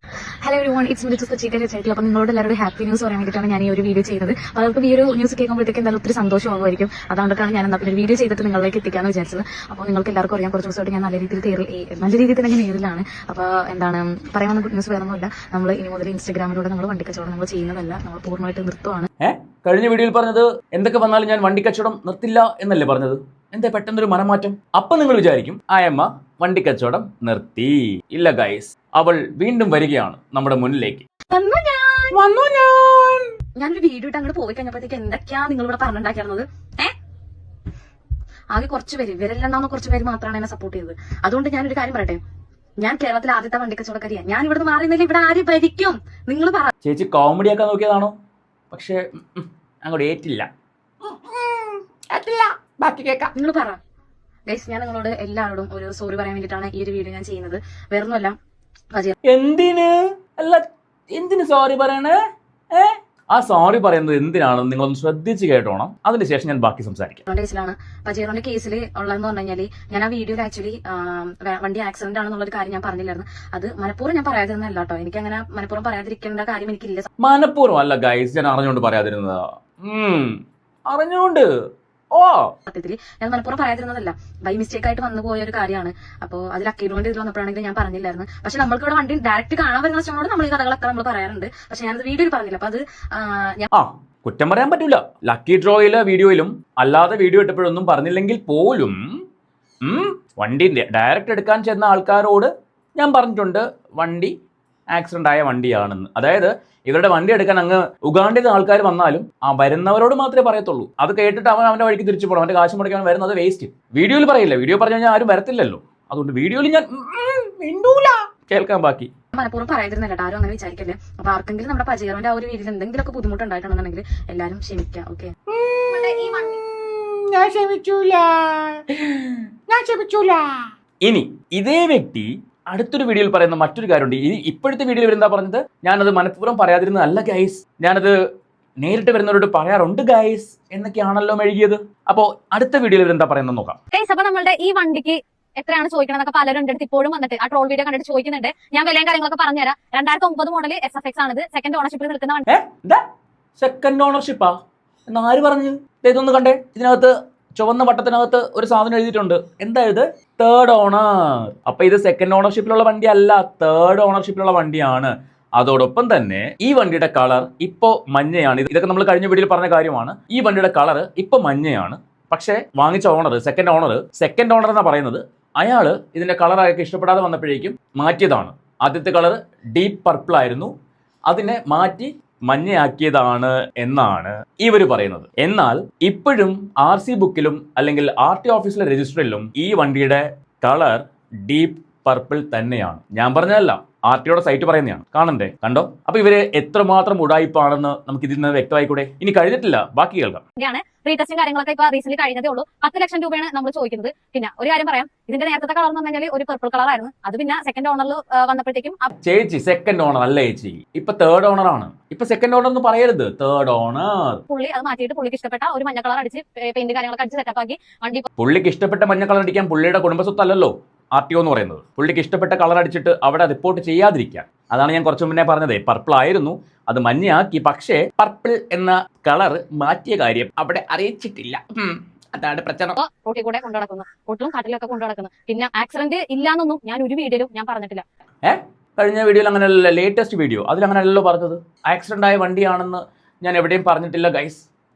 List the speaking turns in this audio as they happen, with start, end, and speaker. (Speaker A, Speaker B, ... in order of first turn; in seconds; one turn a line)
Speaker A: 0.4-19.1
Speaker B: 19.2-31.0
Speaker A: 31.3-32.3
Speaker A: 33.6-36.9
Speaker A: 38.5-42.2
Speaker A: 42.8-46.7
Speaker B: 46.8-48.1
Speaker B: 48.7-50.5
Speaker B: 51.0-53.3
Speaker A: 53.3-53.8
Speaker A: 54.5-58.3
Speaker B: 59.2-62.2
Speaker B: 62.7-67.3
Speaker A: 67.3-77.1
Speaker B: 77.2-81.5
Speaker B: 82.1-82.5
Speaker A: 82.7-93.7
Speaker B: 93.7-99.0
Speaker B: 99.8-104.3
Speaker B: 104.9-119.1
Speaker A: 119.3-125.3
Speaker C: 125.5-128.8
Speaker D: 125.9-126.6
Speaker C: 129.7-130.6
Speaker B: 131.0-138.2
Speaker B: 138.8-143.8
Speaker D: 143.9-152.5
Speaker B: 152.5-153.0
Speaker B: 153.6-154.6
Speaker B: 155.1-180.7
Speaker B: 181.3-200.4
Speaker D: 200.6-209.1
Speaker B: 209.2-214.4
Speaker D: 214.5-218.3
Speaker B: 218.4-233.0
Speaker D: 233.0-238.1
Speaker B: 238.4-244.7